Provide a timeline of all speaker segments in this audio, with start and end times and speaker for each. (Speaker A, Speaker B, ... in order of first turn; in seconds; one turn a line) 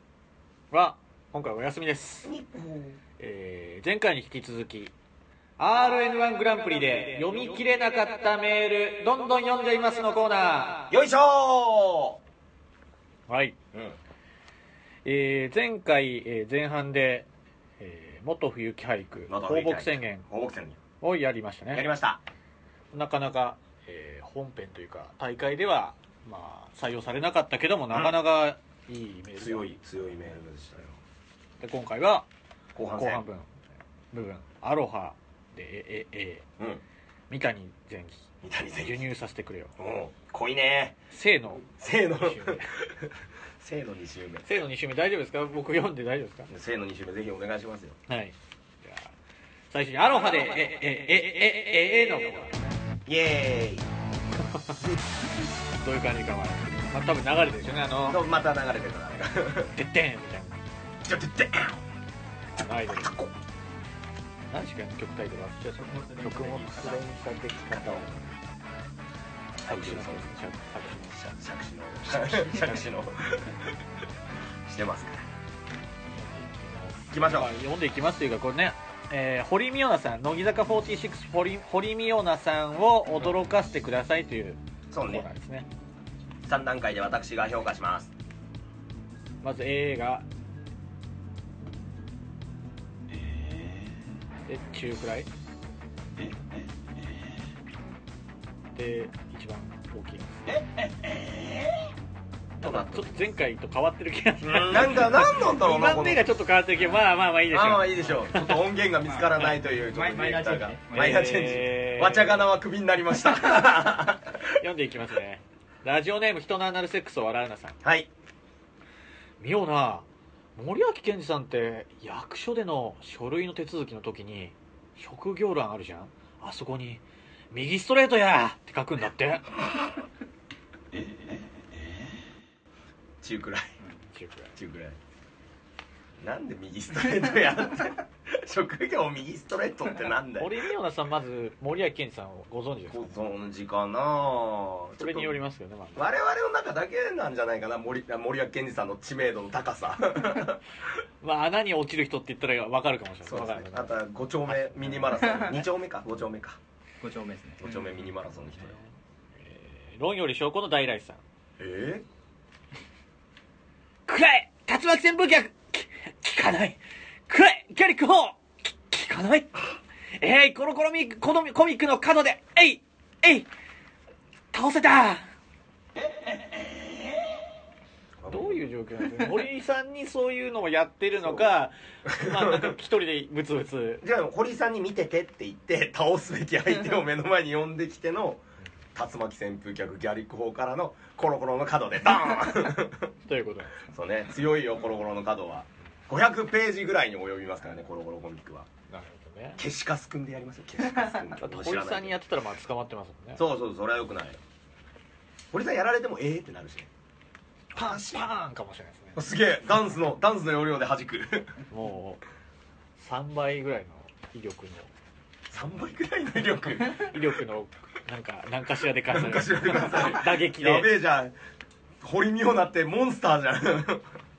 Speaker A: 0.7-2.3
Speaker B: 2.2-3.0
Speaker A: 3.2-4.9
Speaker A: 5.6-10.9
Speaker B: 10.9-12.2
Speaker A: 13.3-13.6
Speaker B: 13.7-14.0
Speaker A: 15.0-17.3
Speaker A: 17.8-20.2
Speaker B: 19.3-20.8
Speaker A: 21.0-21.9
Speaker B: 21.7-22.2
Speaker A: 22.9-30.3
Speaker B: 29.4-31.0
Speaker A: 31.6-32.3
Speaker B: 32.7-33.2
Speaker A: 33.0-33.5
Speaker A: 34.1-36.4
Speaker A: 37.3-39.7
Speaker B: 38.4-39.0
Speaker B: 39.8-41.0
Speaker A: 41.1-42.7
Speaker B: 41.7-44.5
Speaker A: 44.5-46.5
Speaker B: 46.5-48.0
Speaker A: 48.1-49.1
Speaker A: 49.7-52.5
Speaker B: 53.0-53.9
Speaker A: 54.5-54.8
Speaker A: 55.8-58.2
Speaker B: 58.1-59.7
Speaker A: 59.7-60.6
Speaker B: 61.0-61.8
Speaker A: 62.5-63.1
Speaker B: 62.6-63.3
Speaker A: 64.5-68.1
Speaker C: 65.6-67.0
Speaker B: 66.7-68.3
Speaker B: 69.6-70.4
Speaker A: 69.6-71.2
Speaker B: 71.0-73.7
Speaker A: 72.1-72.9
Speaker B: 74.7-75.2
Speaker A: 76.1-85.7
Speaker B: 77.1-77.5
Speaker B: 84.9-85.3
Speaker B: 86.4-88.1
Speaker A: 89.4-90.2
Speaker A: 94.5-95.3
Speaker A: 98.7-100.7
Speaker B: 100.7-101.9
Speaker B: 102.6-103.2
Speaker A: 102.6-108.6
Speaker B: 104.4-106.3
Speaker B: 107.5-114.5
Speaker C: 109.0-111.5
Speaker A: 110.9-112.5
Speaker A: 114.6-117.8
Speaker B: 117.8-118.1
Speaker A: 119.4-129.6
Speaker B: 133.2-133.7
Speaker A: 134.1-134.5
Speaker B: 134.6-135.0
Speaker B: 136.2-140.6
Speaker A: 140.4-143.2
Speaker B: 142.9-145.4
Speaker A: 145.0-146.1
Speaker B: 145.9-150.6
Speaker A: 151.2-155.3
Speaker B: 153.2-156.6
Speaker C: 157.0-157.8
Speaker B: 157.6-158.8
Speaker A: 159.4-161.2
Speaker B: 161.6-162.0
Speaker A: 164.1-169.5
Speaker A: 170.2-173.5
Speaker A: 174.5-175.2
Speaker B: 178.2-178.6
Speaker A: 178.3-184.0
Speaker B: 181.2-181.4
Speaker B: 182.1-182.7
Speaker B: 184.0-188.4
Speaker B: 188.9-193.1
Speaker A: 193.3-193.8
Speaker B: 193.9-198.7
Speaker A: 198.9-199.6
Speaker B: 199.6-202.1
Speaker A: 201.4-203.4
Speaker B: 203.4-204.4
Speaker B: 205.5-206.9
Speaker B: 207.7-208.3
Speaker A: 207.7-209.2
Speaker B: 209.1-211.5
Speaker A: 211.7-212.2
Speaker A: 213.0-214.9
Speaker B: 215.5-217.2
Speaker A: 217.0-220.9
Speaker B: 219.1-221.3
Speaker B: 222.0-224.1